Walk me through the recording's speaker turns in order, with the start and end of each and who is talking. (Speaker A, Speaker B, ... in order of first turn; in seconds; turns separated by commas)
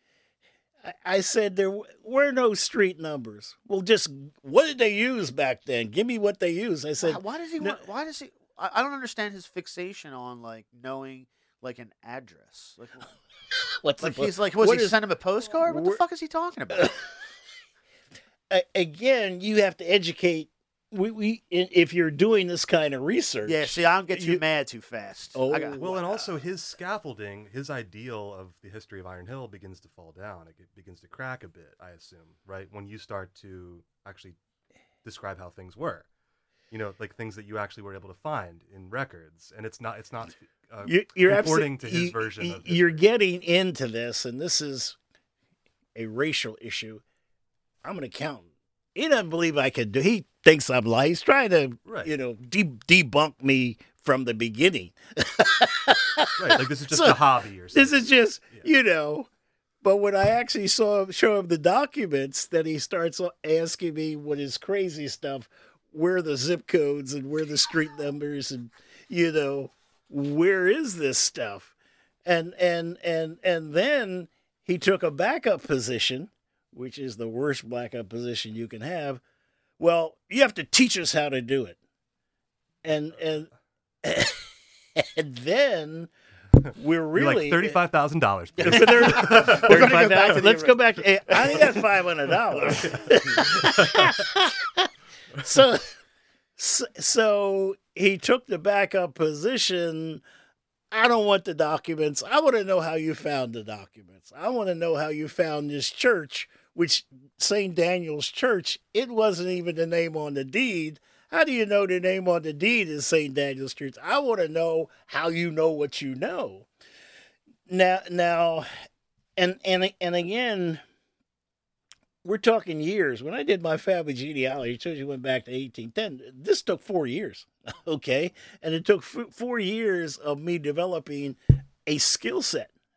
Speaker A: 0.8-7.8, Speaker B: 7.0-13.1, Speaker A: 13.5-16.0, Speaker B: 14.0-16.9, Speaker A: 16.7-17.3, Speaker A: 18.5-24.4, Speaker B: 23.5-26.4, Speaker A: 25.3-25.9, Speaker C: 25.8-34.4, Speaker C: 35.0-36.1, Speaker C: 36.7-43.0, Speaker A: 40.8-45.0, Speaker A: 46.0-47.0, Speaker A: 47.8-57.2, Speaker C: 51.9-52.1, Speaker C: 56.4-58.7, Speaker A: 57.7-59.3, Speaker A: 59.8-71.7, Speaker A: 72.2-79.2, Speaker A: 79.8-81.8, Speaker A: 82.8-83.5, Speaker A: 84.0-86.1, Speaker A: 86.7-87.8, Speaker C: 87.2-90.6, Speaker B: 88.6-91.8, Speaker A: 88.6-96.0, Speaker C: 91.4-91.8, Speaker C: 92.7-94.1, Speaker A: 96.6-100.2, Speaker A: 100.9-116.7, Speaker A: 117.7-118.8, Speaker A: 119.4-120.8, Speaker A: 122.2-132.7